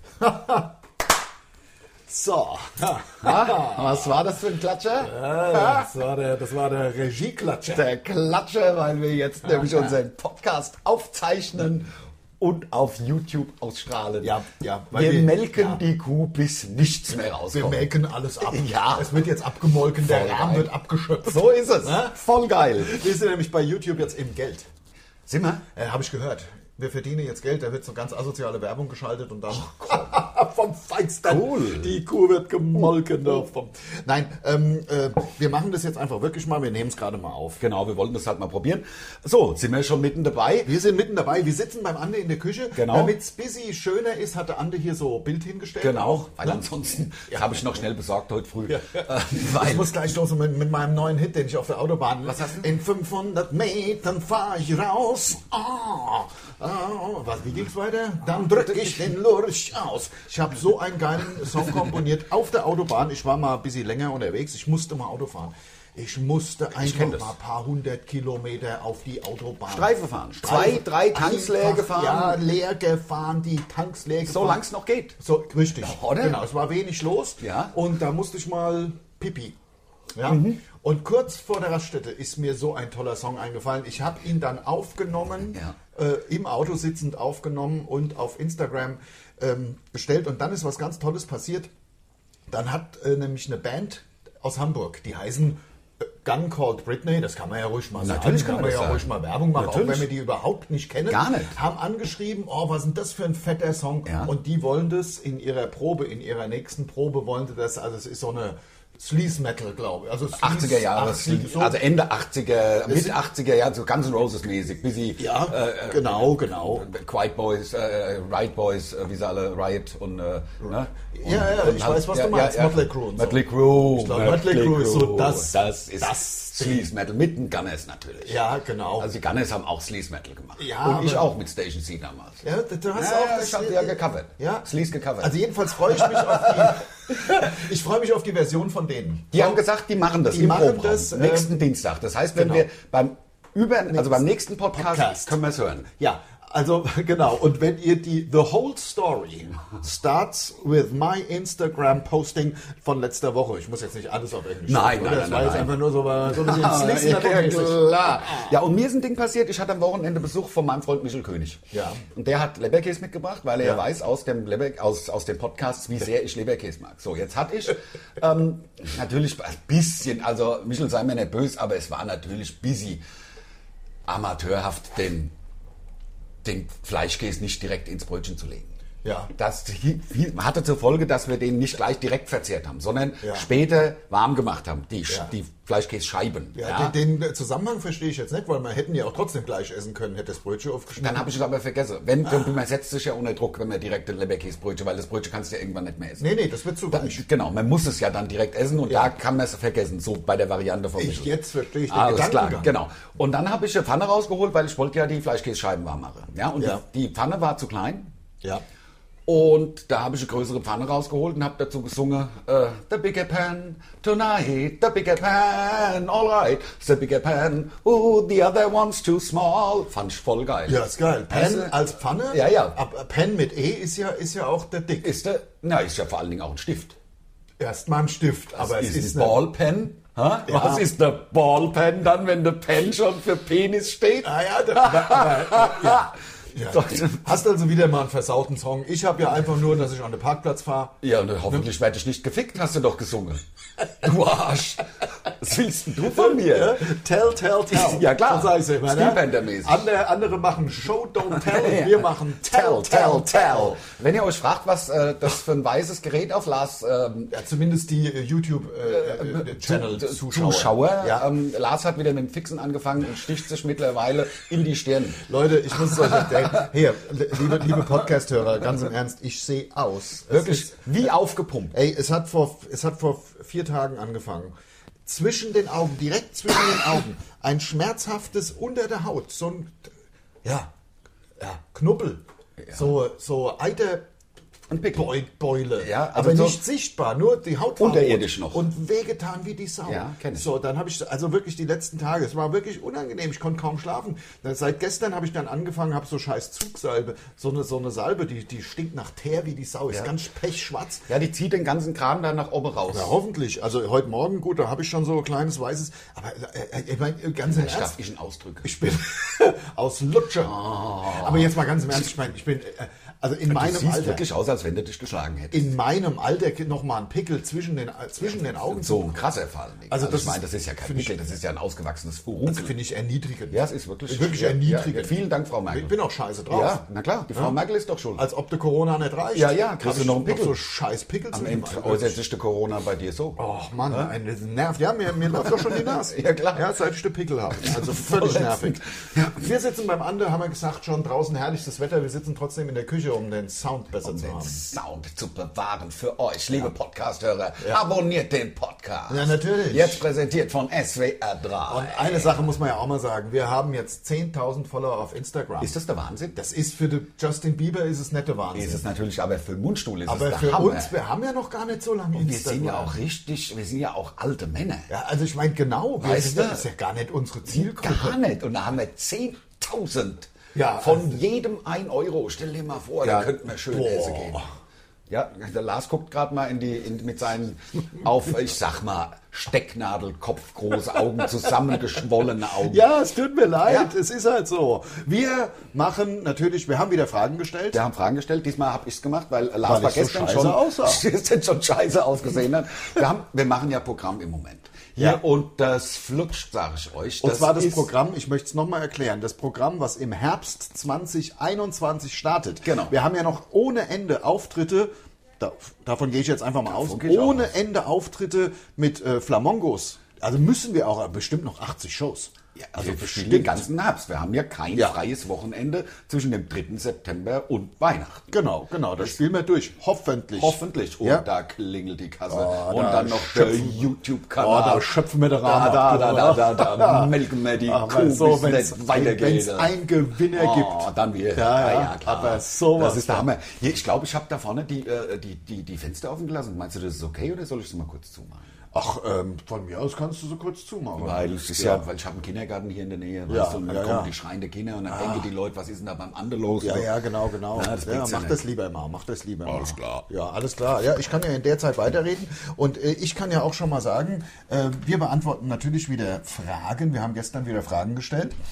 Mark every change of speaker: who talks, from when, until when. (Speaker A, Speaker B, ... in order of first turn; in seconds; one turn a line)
Speaker A: 0.2-0.8
Speaker A: 2.1-4.2
Speaker B: 3.2-5.2
Speaker A: 5.0-7.9
Speaker B: 7.7-14.4
Speaker A: 14.2-15.8
Speaker B: 14.9-17.9
Speaker A: 17.5-22.2
Speaker B: 18.4-19.2
Speaker B: 19.9-20.7
Speaker B: 21.2-23.0
Speaker A: 22.8-24.7
Speaker B: 25.3-25.6
Speaker A: 25.7-37.6
Speaker B: 29.6-30.1
Speaker B: 31.2-31.9
Speaker B: 37.6-40.8
Speaker A: 40.6-46.6
Speaker B: 42.7-43.1
Speaker B: 45.8-49.9
Speaker A: 47.3-47.8
Speaker A: 48.7-74.6
Speaker B: 52.2-52.6
Speaker B: 66.8-67.3
Speaker B: 69.7-72.4
Speaker B: 74.2-75.2
Speaker A: 75.2-79.5
Speaker B: 75.8-76.4
Speaker B: 77.4-77.7
Speaker A: 80.1-91.7
Speaker B: 80.2-80.6
Speaker A: 92.5-111.8
Speaker B: 98.0-100.1
Speaker B: 101.1-101.6
Speaker B: 104.0-104.3
Speaker B: 110.3-128.4
Speaker A: 112.8-113.2
Speaker A: 115.2-116.9
Speaker A: 120.7-126.9
Speaker A: 128.2-129.1
Speaker B: 128.9-135.3
Speaker A: 130.6-131.3
Speaker A: 132.4-134.7
Speaker A: 135.2-139.6
Speaker B: 135.9-137.6
Speaker B: 139.3-145.9
Speaker A: 140.3-141.6
Speaker A: 142.3-142.7
Speaker A: 143.9-145.3
Speaker A: 146.0-158.5
Speaker B: 154.7-173.0
Speaker A: 161.7-162.0
Speaker B: 174.1-175.3
Speaker B: 176.4-178.7
Speaker A: 179.0-179.3
Speaker B: 179.3-186.9
Speaker A: 183.2-183.5
Speaker A: 186.5-191.3
Speaker B: 190.9-196.3
Speaker A: 196.2-197.2
Speaker B: 196.9-201.3
Speaker A: 201.0-202.7
Speaker B: 201.9-208.1
Speaker B: 209.3-222.8
Speaker A: 220.7-225.1
Speaker B: 225.0-227.0
Speaker A: 227.6-229.4
Speaker B: 228.5-236.2
Speaker A: 230.4-230.9
Speaker A: 234.2-240.9
Speaker B: 236.7-237.2
Speaker B: 241.0-243.4
Speaker B: 243.9-246.9
Speaker A: 246.1-253.8
Speaker B: 247.7-249.9
Speaker B: 251.3-257.3
Speaker A: 257.3-261.3
Speaker B: 258.9-265.2
Speaker A: 265.2-270.8
Speaker B: 270.3-271.7
Speaker A: 271.7-274.5
Speaker A: 275.1-279.9
Speaker A: 280.4-280.7
Speaker A: 281.4-284.0
Speaker B: 284.7-285.1
Speaker A: 284.9-301.1
Speaker B: 285.8-286.6
Speaker B: 287.8-288.6
Speaker B: 289.9-290.5
Speaker B: 301.1-303.1
Speaker A: 302.9-308.0
Speaker B: 307.4-309.2
Speaker A: 308.6-314.2
Speaker B: 310.4-311.5
Speaker B: 313.5-315.7
Speaker A: 315.5-319.2
Speaker B: 318.6-322.7
Speaker A: 319.9-321.3
Speaker A: 322.4-325.1
Speaker B: 323.5-325.9
Speaker A: 325.7-327.6
Speaker B: 326.5-328.2
Speaker A: 328.1-332.2
Speaker B: 329.3-330.6
Speaker B: 331.3-333.4
Speaker A: 333.4-344.6
Speaker B: 335.3-336.6
Speaker B: 337.5-339.4
Speaker B: 344.0-352.4
Speaker A: 349.1-350.0
Speaker A: 351.7-355.7
Speaker B: 355.6-356.4
Speaker A: 356.3-358.9
Speaker B: 358.5-360.9
Speaker A: 360.1-363.0
Speaker B: 362.1-364.9
Speaker A: 364.9-368.2
Speaker B: 366.0-366.6
Speaker B: 367.5-374.4
Speaker A: 370.5-371.2
Speaker A: 373.0-374.5
Speaker B: 375.1-382.8
Speaker A: 382.6-387.8
Speaker B: 383.6-383.9
Speaker B: 387.7-397.9
Speaker A: 389.6-391.0
Speaker A: 397.2-413.6
Speaker B: 402.6-402.9
Speaker B: 406.6-407.5
Speaker B: 412.6-418.3
Speaker A: 418.3-421.2
Speaker B: 420.3-424.9
Speaker A: 422.3-433.3
Speaker B: 425.4-429.7
Speaker B: 430.3-438.5
Speaker A: 438.7-441.8
Speaker B: 441.0-446.9
Speaker A: 443.3-444.1
Speaker A: 444.9-445.3
Speaker A: 446.6-458.4
Speaker B: 447.5-448.4
Speaker B: 449.4-450.1